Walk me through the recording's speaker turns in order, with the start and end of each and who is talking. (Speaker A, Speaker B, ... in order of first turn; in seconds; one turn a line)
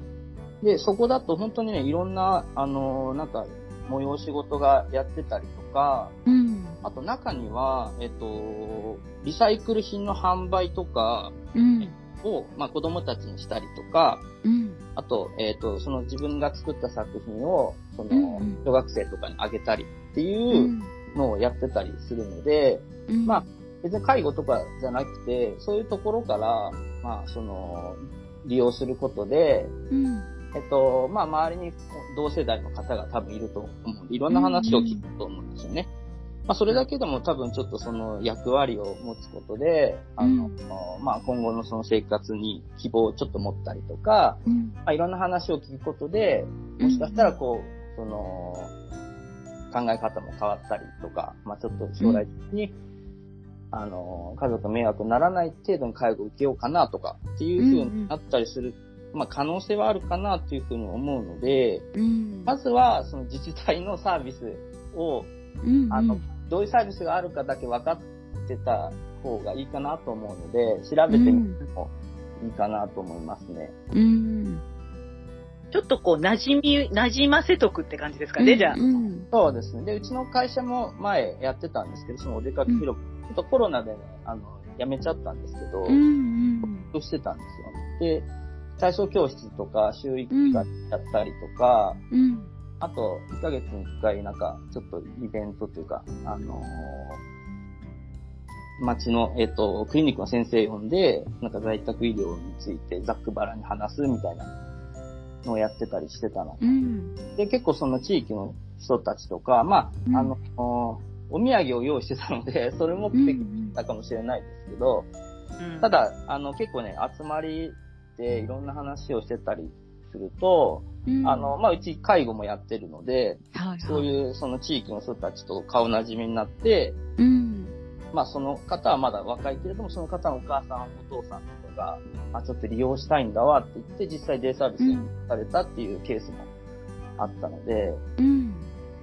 Speaker A: 0.6-6.2
Speaker B: 6.3-6.8
Speaker A: 6.8-14.3
Speaker B: 11.6-11.9
Speaker B: 14.4-14.8
Speaker A: 15.0-29.7
Speaker B: 18.1-18.6
Speaker B: 20.5-20.9
Speaker B: 23.1-23.5
Speaker B: 29.9-30.3
Speaker A: 30.5-35.9
Speaker B: 34.3-35.0
Speaker A: 36.5-48.7
Speaker B: 40.2-40.6
Speaker B: 44.5-44.8
Speaker B: 46.8-47.4
Speaker A: 49.7-52.7
Speaker B: 52.0-52.2
Speaker A: 53.7-61.9
Speaker B: 57.6-58.1
Speaker B: 62.0-62.6
Speaker A: 62.5-65.3
Speaker B: 65.6-66.2
Speaker A: 65.9-73.7
Speaker B: 71.1-71.6
Speaker B: 73.9-74.6
Speaker C: 75.7-78.8
Speaker B: 78.4-79.3
Speaker A: 79.3-86.0
Speaker B: 85.9-86.9
Speaker A: 86.9-88.3
Speaker A: 88.8-92.0
Speaker B: 90.3-90.7
Speaker B: 92.1-92.5
Speaker A: 92.8-97.2
Speaker A: 98.8-104.5
Speaker A: 105.4-106.7
Speaker B: 106.6-107.2
Speaker A: 107.4-115.1
Speaker B: 110.1-110.3
Speaker B: 113.1-113.8
Speaker C: 115.6-115.9
Speaker A: 115.8-127.0
Speaker B: 121.1-121.5
Speaker B: 123.5-124.1
Speaker B: 127.2-127.7
Speaker A: 128.1-136.5
Speaker B: 134.8-135.1
Speaker A: 137.2-138.0
Speaker B: 138.2-138.7